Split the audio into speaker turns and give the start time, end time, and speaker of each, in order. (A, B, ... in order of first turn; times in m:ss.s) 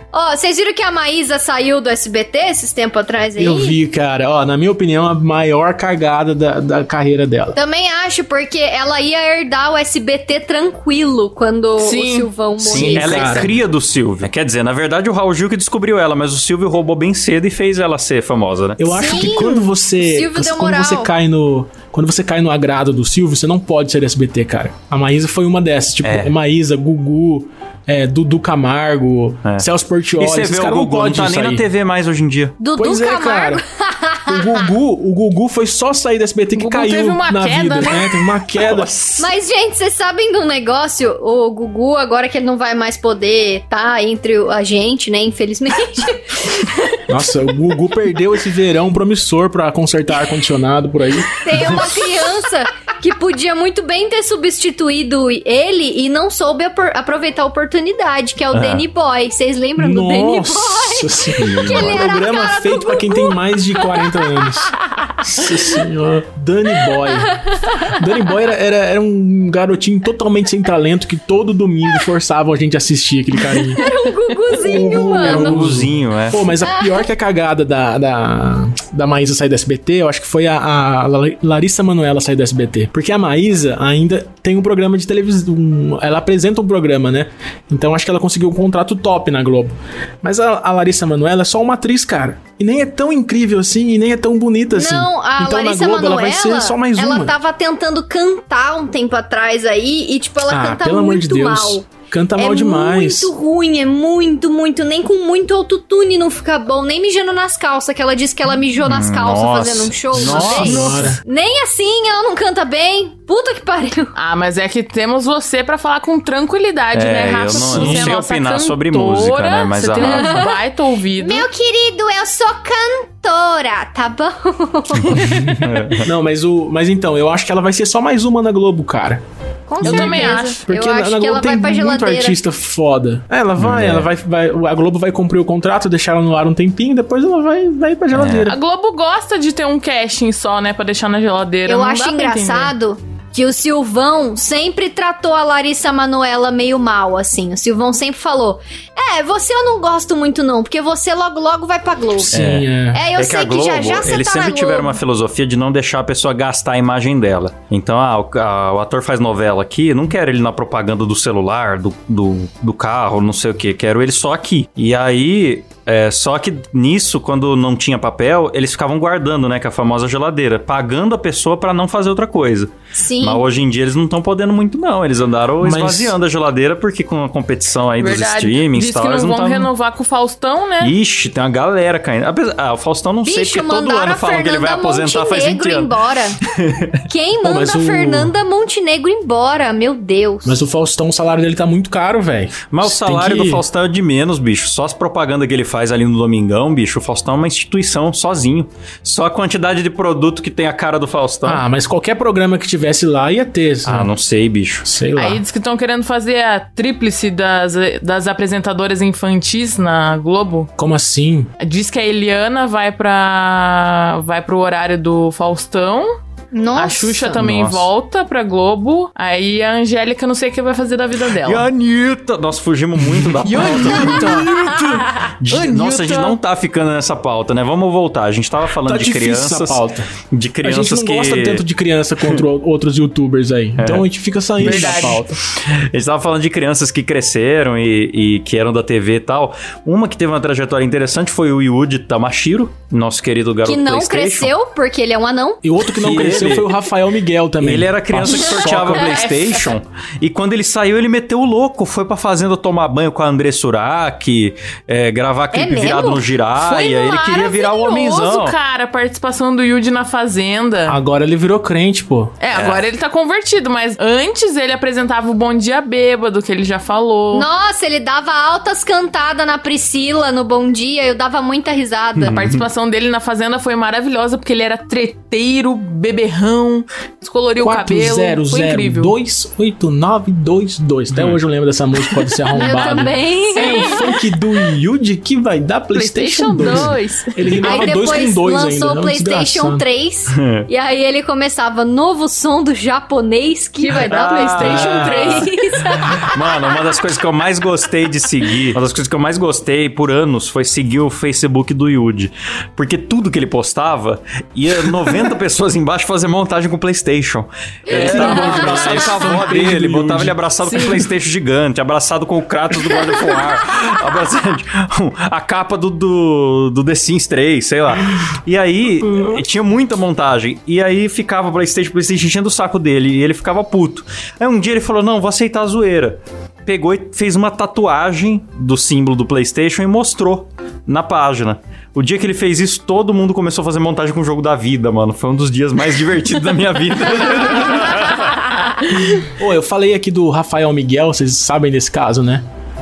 0:00.1-0:03.8 A
0:03.4-0:07.6 B
0:07.5-0:13.5 A
0:11.8-0:12.3 C
0:12.6-0:18.8 D
0:12.7-0:13.5 B
0:18.8-0:31.6 B
0:18.9-0:21.1 A
0:26.0-0:26.3 D
0:30.2-0:32.6 D
0:32.6-0:34.6 A
0:32.8-0:33.6 B
0:34.3-0:39.0 B
0:36.5-0:38.1 C
0:38.6-0:39.2 D
0:39.2-0:46.8 A
0:47.1-0:51.8 B
0:51.4-1:04.1 A
0:58.5-0:58.8 D
0:59.8-1:13.8 B
1:01.4-1:02.0 D
1:13.8-1:15.6 A
1:14.5-1:37.3 B
1:15.1-1:16.5 D
1:34.7-1:41.8 A
1:40.5-1:43.3 B
1:42.4-1:54.1 A
1:48.8-1:51.2 D
1:50.1-1:51.2 B
1:54.2-2:01.5 C
1:56.9-2:00.4 D
1:57.6-1:58.1 B
2:00.0-2:00.6 A
2:01.2-2:05.5 A
2:05.0-2:06.1 D
2:05.2-2:09.2 B
2:09.7-2:12.4 A
2:09.8-2:10.6 C
2:09.8-2:18.6 B
2:13.6-2:14.1 D
2:18.1-2:18.5 D
2:18.4-2:22.7 C
2:21.6-2:32.4 A
2:32.3-2:33.0 B
2:32.3-2:59.7 D
2:32.9-2:35.0 A
2:52.9-2:53.4 A
2:55.6-2:56.2 B
2:58.0-3:00.9 C
3:00.8-3:05.9 D
3:03.2-3:06.4 A
3:06.5-3:06.9 D
3:07.1-3:10.6 A
3:07.4-3:08.3 B
3:10.4-3:13.6 B
3:12.7-3:21.6 D
3:21.4-3:24.1 B
3:23.8-3:24.8 D
3:24.8-3:25.4 B
3:25.2-3:30.7 C
3:30.8-3:31.5 B
3:31.6-3:36.1 C
3:36.5-3:37.3 A
3:36.7-3:41.7 C
3:37.3-3:37.9 D
3:41.4-3:44.8 D
3:43.3-3:45.0 B
3:43.4-3:46.4 C
3:45.4-3:49.8 D
3:48.8-3:50.1 B
3:50.3-3:51.6 D
3:50.6-3:55.4 B
3:53.8-3:54.0 D
3:54.6-4:04.5 D
3:54.6-3:55.2 C
4:03.6-4:05.6 A
4:05.6-4:09.2 B
4:05.9-4:06.8 D
4:07.6-4:18.5 D
4:08.9-4:09.7 C
4:15.5-4:16.2 A
4:16.6-4:21.0 C
4:20.8-4:22.3 B
4:22.4-4:27.5 C
4:22.5-4:22.8 D
4:27.3-4:32.4 A
4:32.2-4:32.6 D
4:32.3-4:39.1 C
4:37.6-4:49.8 B
4:41.1-4:41.4 D
4:42.5-4:44.0 A
4:42.6-4:44.2 C
4:45.9-4:47.4 C
4:47.6-4:56.8 A
4:50.3-4:50.7 D
4:53.8-4:55.5 C
4:54.0-4:55.5 D
4:54.6-4:55.0 B
4:56.0-5:38.5 D
5:07.9-5:10.4 B
5:08.0-5:08.8 C
5:10.6-5:11.0 C
5:19.0-5:19.4 B
5:39.3-5:42.4 B